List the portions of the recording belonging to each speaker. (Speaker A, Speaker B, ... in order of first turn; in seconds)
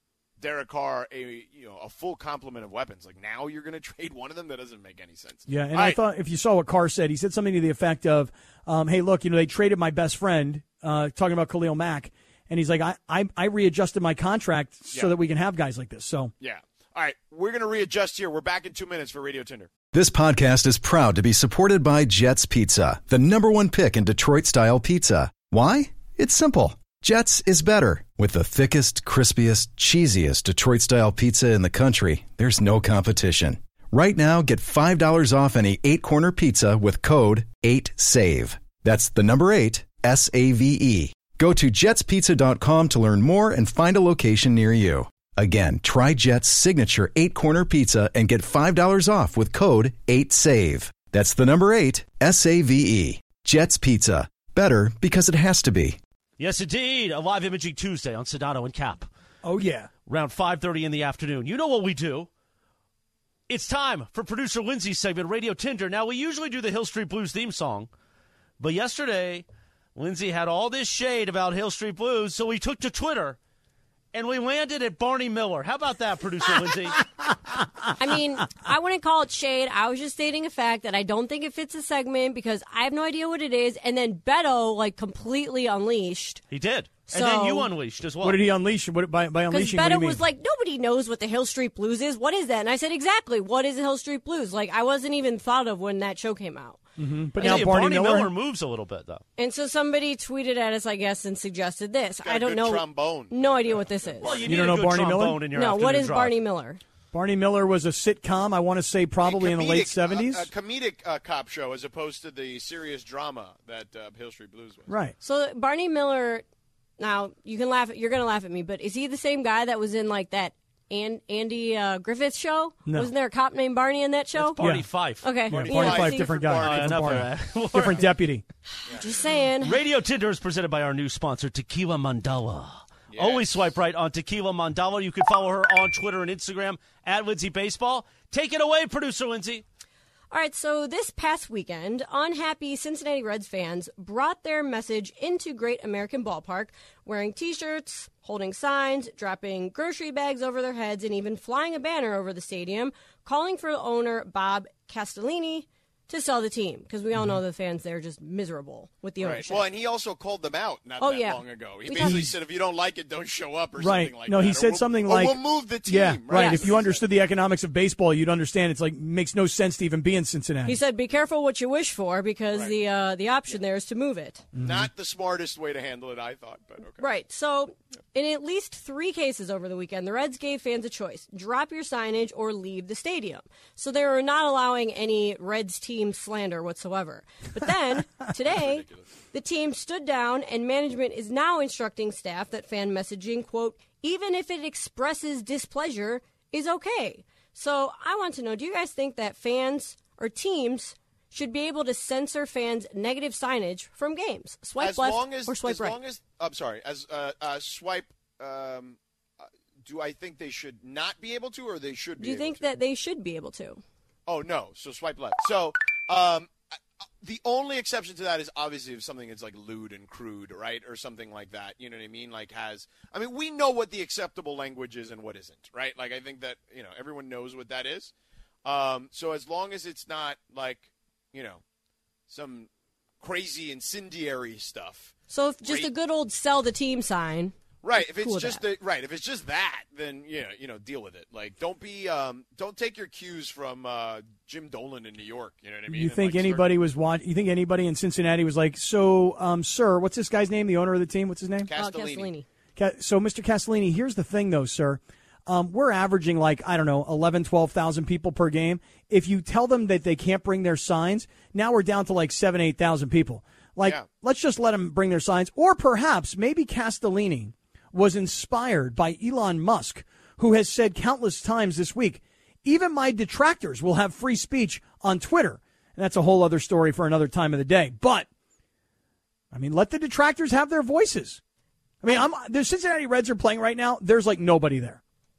Speaker A: 0.4-6.0, 16.4-19.7, 102.2-104.7, 109.2-114.9, 125.5-127.1, 133.1-133.7, 159.2-167.1, 174.6-177.1, 188.5-189.1, 204.8-212.7, 214.3-216.5, 217.2-228.1, 228.7-231.6, 232.3-232.7, 233.2-235.9, 237.8-246.7, 251.7-252.3
Speaker B: 5.5-16.3, 59.4-59.9, 88.2-90.2, 97.0-98.3, 104.5-105.4, 107.1-110.5, 114.9-115.2, 122.9-123.1, 124.6-124.8, 125.5-128.4, 162.0-162.3, 163.8-170.8, 174.6-174.9, 245.9-251.7, 252.8-278.3, 279.5-281.4, 282.0-285.0
Speaker C: 19.9-56.0
Speaker D: 56.4-59.1, 60.1-62.3, 63.5-67.9, 68.6-73.4, 74.1-77.1, 86.5-88.4, 97.4-99.2, 104.2-106.4, 124.4-125.3, 126.6-128.1, 129.6-139.6
Speaker E: 78.0-86.4, 87.1-87.7, 89.5-96.8, 99.4-104.5, 105.5-106.8, 115.2-116.4, 117.0-124.6, 125.2-126.5, 128.9-129.8, 140.3-159.7, 161.0-162.3, 166.3-166.8, 170.7-174.5, 177.0-206.0, 212.2-213.8, 235.3-238.6, 251.7-252.5